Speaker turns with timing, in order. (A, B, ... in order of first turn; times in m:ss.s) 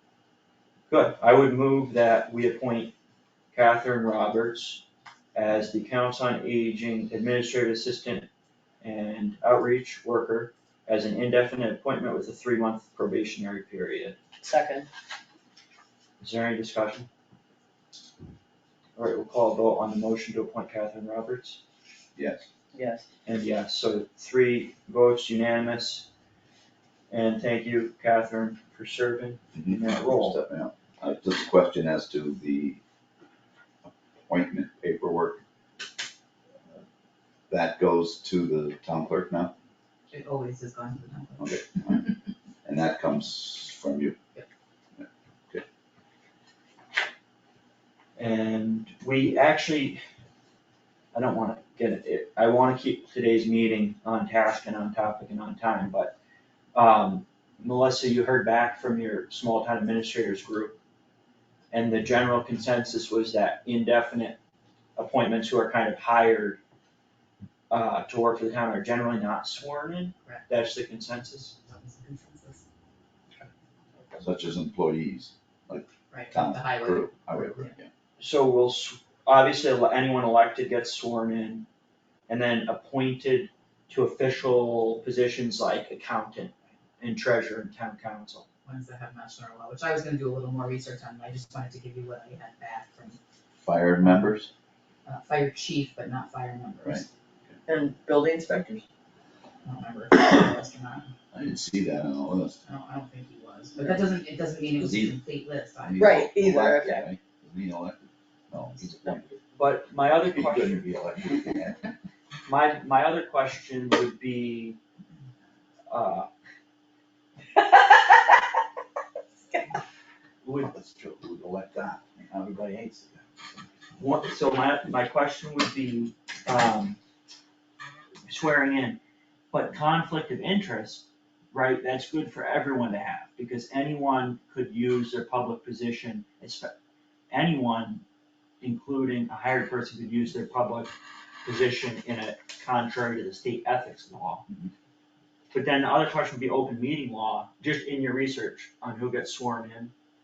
0:00.9-0:02.9 A
0:03.5-0:04.8 A
0:05.3-0:08.3 A
0:08.8-0:14.2 A
0:14.4-0:14.9 B
0:16.2-0:17.1 A
0:19.0-0:21.6 A
0:22.2-0:22.5 C
0:22.7-0:23.0 B
0:23.2-0:26.1 A
0:27.1-0:30.4 A
0:29.5-0:32.8 C
0:34.3-0:35.4 C
0:37.5-0:39.5 C
0:40.1-0:41.7 D
0:41.4-0:42.0 C
0:42.6-0:44.2 C
0:45.0-0:45.6 C
0:48.2-0:50.0 A
0:51.1-0:56.1 A
0:56.7-1:00.8 A
1:01.7-1:04.4 A
1:05.0-1:06.6 A
1:07.7-1:11.5 A
1:11.6-1:12.6 D
1:14.1-1:17.9 C
1:16.1-1:17.7 D
1:18.2-1:21.7 A
1:22.3-1:28.4 A
1:28.6-1:33.2 D
1:33.6-1:34.5 C
1:34.0-1:34.3 D
1:35.0-1:37.1 D
1:37.7-1:38.8 B
1:39.6-1:41.1 D
1:41.3-1:42.6 C
1:42.6-1:46.1 D
1:44.8-1:45.2 C
1:45.8-1:49.3 C
1:46.0-1:47.1 B
1:49.5-1:50.9 A
1:50.3-1:51.9 C
1:52.4-1:54.8 A
1:55.9-1:56.3 A
2:00.4-2:00.7 A
2:00.6-2:03.6 C
2:04.0-2:07.0 A
2:08.2-2:09.0 A
2:09.5-2:16.7 A
2:17.3-2:18.0 A
2:18.6-2:24.4 A
2:25.5-2:29.9 A